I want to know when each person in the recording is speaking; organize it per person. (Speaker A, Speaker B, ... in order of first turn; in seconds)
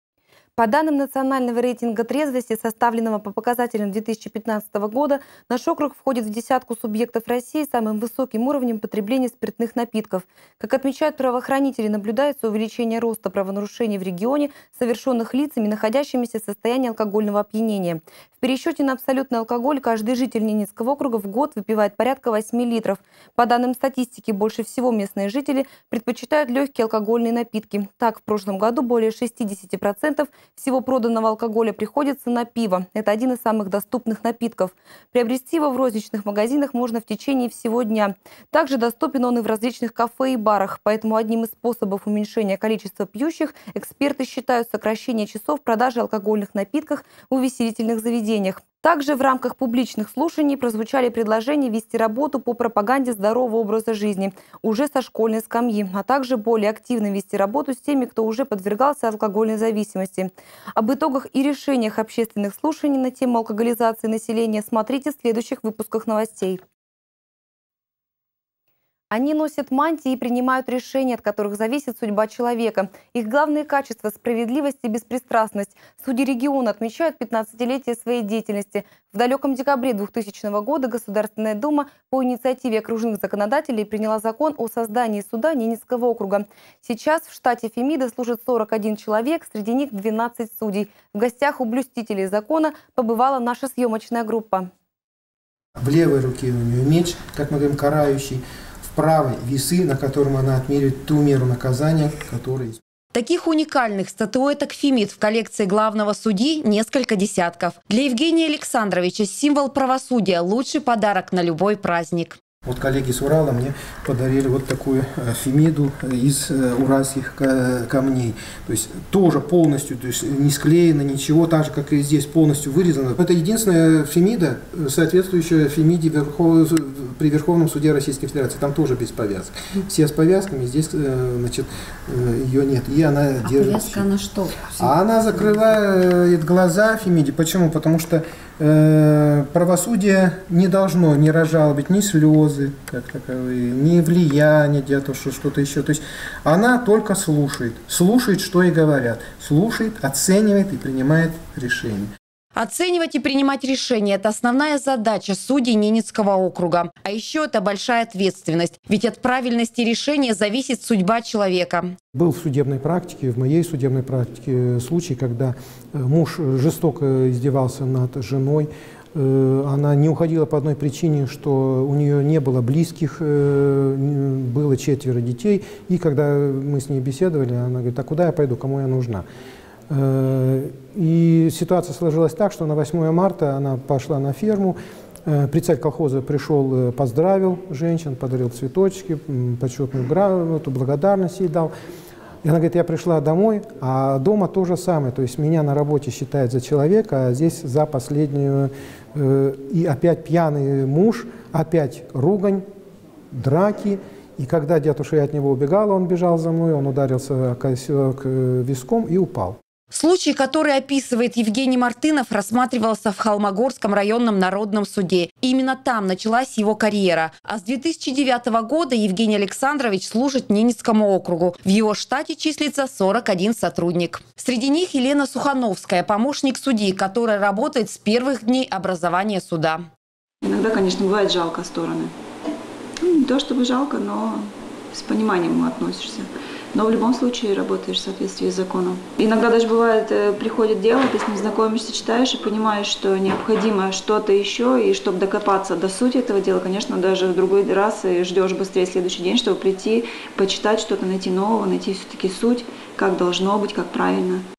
Speaker A: 0.6-66.6, 69.1-94.7
Speaker B: 95.8-102.8, 112.6-134.2, 134.7-152.1, 162.1-179.2, 179.9-191.7, 192.4-202.6, 203.3-209.6
Speaker C: 103.1-112.4, 133.4-135.0, 152.6-161.9, 209.9-229.8
Speaker D: 230.4-232.1, 233.0-254.4